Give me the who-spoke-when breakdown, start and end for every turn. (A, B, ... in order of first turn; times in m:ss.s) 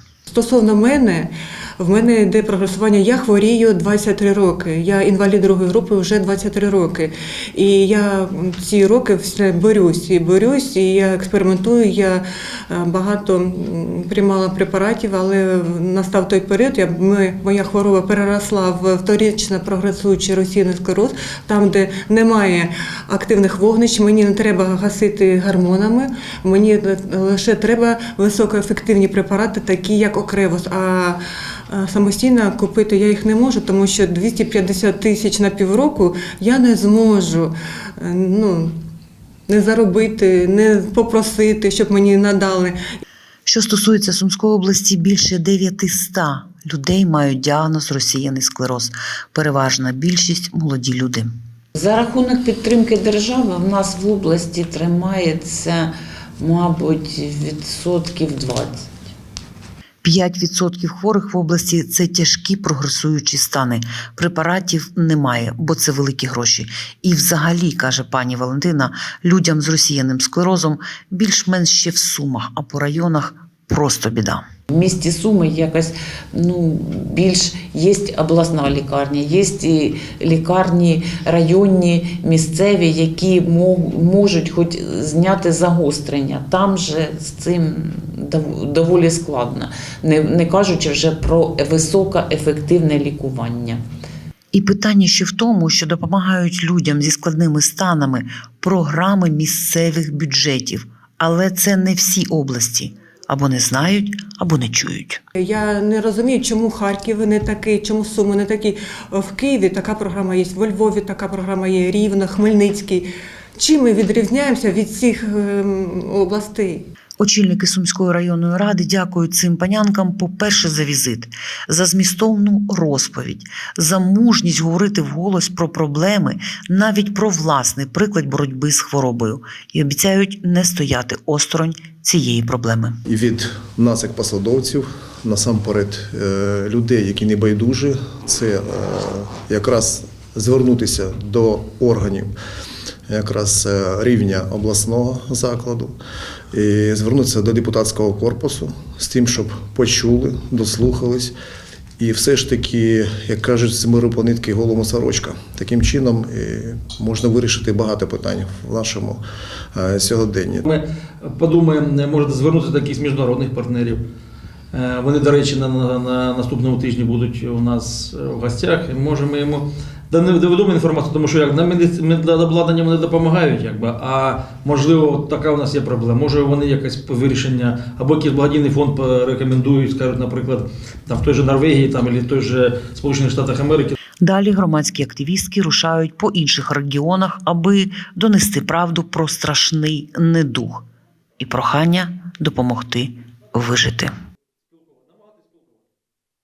0:00.3-0:38.8 A
0:39.5-0:43.0 A
0:43.5-0:51.3 B
0:51.8-0:58.9 C
1:00.0-1:14.4 B
1:14.7-1:33.8 C
1:34.5-1:45.2 B
1:45.4-1:56.8 A
1:57.2-2:13.0 B
2:13.0-2:22.3 D
2:23.1-2:26.0 D
2:26.5-2:31.3 D
2:32.0-2:39.2 D
2:39.7-2:40.6 D
2:40.6-2:44.0 E
2:44.7-3:04.0 E
3:04.2-3:10.8 B
3:11.4-3:14.1 B
3:14.7-3:15.7 E